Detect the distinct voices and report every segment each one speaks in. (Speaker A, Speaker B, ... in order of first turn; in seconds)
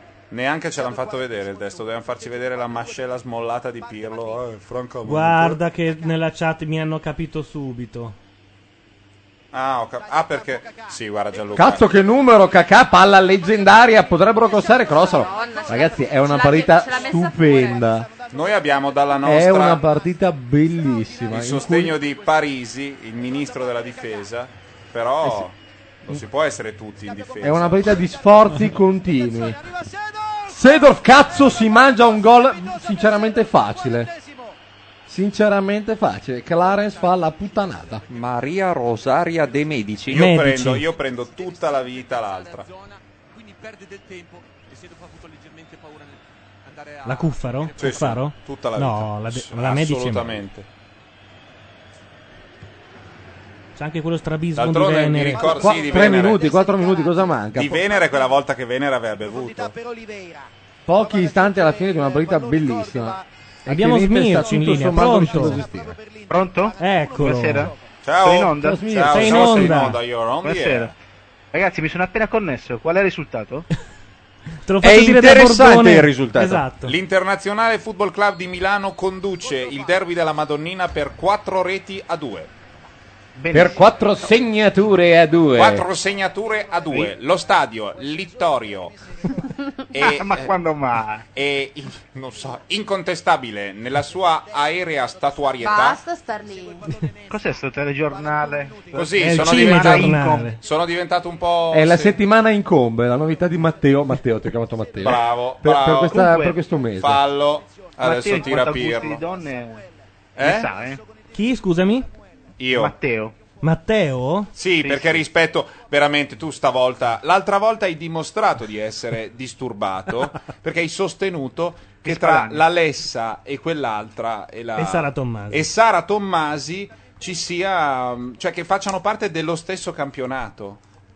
Speaker A: 0.3-5.6, 9.5-11.8, 18.3-19.8, 21.3-25.5, 26.1-27.9, 40.1-42.7, 47.8-50.7, 54.6-56.5, 57.5-59.8, 68.0-70.9, 76.8-82.5, 85.5-88.9, 89.9-90.5, 91.3-96.0, 98.9-102.2, 105.0-106.3, 107.0-109.2, 110.4-110.7, 112.6-113.0, 114.6-130.8
Speaker B: 5.1-8.2, 40.1-40.9, 47.0-50.4, 53.8-55.5, 63.7-65.6, 66.8-67.7, 69.1-70.0, 74.7-76.9, 99.2-100.6, 111.3-112.1, 113.6-114.5, 124.8-125.7
Speaker C: 11.6-18.1, 19.2-22.0, 27.4-29.6, 30.5-34.1, 35.1-38.0, 55.5-57.9, 60.9-66.0, 68.6-69.4, 83.5-85.8, 101.7-107.2
Speaker D: 14.5-17.8, 95.6-96.9
Speaker E: 37.7-39.6, 41.0-48.1
Speaker F: 38.1-40.3, 74.8-76.7
Speaker G: 66.3-69.9, 70.4-70.9, 71.5-73.7, 83.3-83.9, 90.0-91.2, 97.3-100.6, 106.1-106.6, 108.0-111.0, 112.7-113.4, 114.8-115.2, 122.0-122.7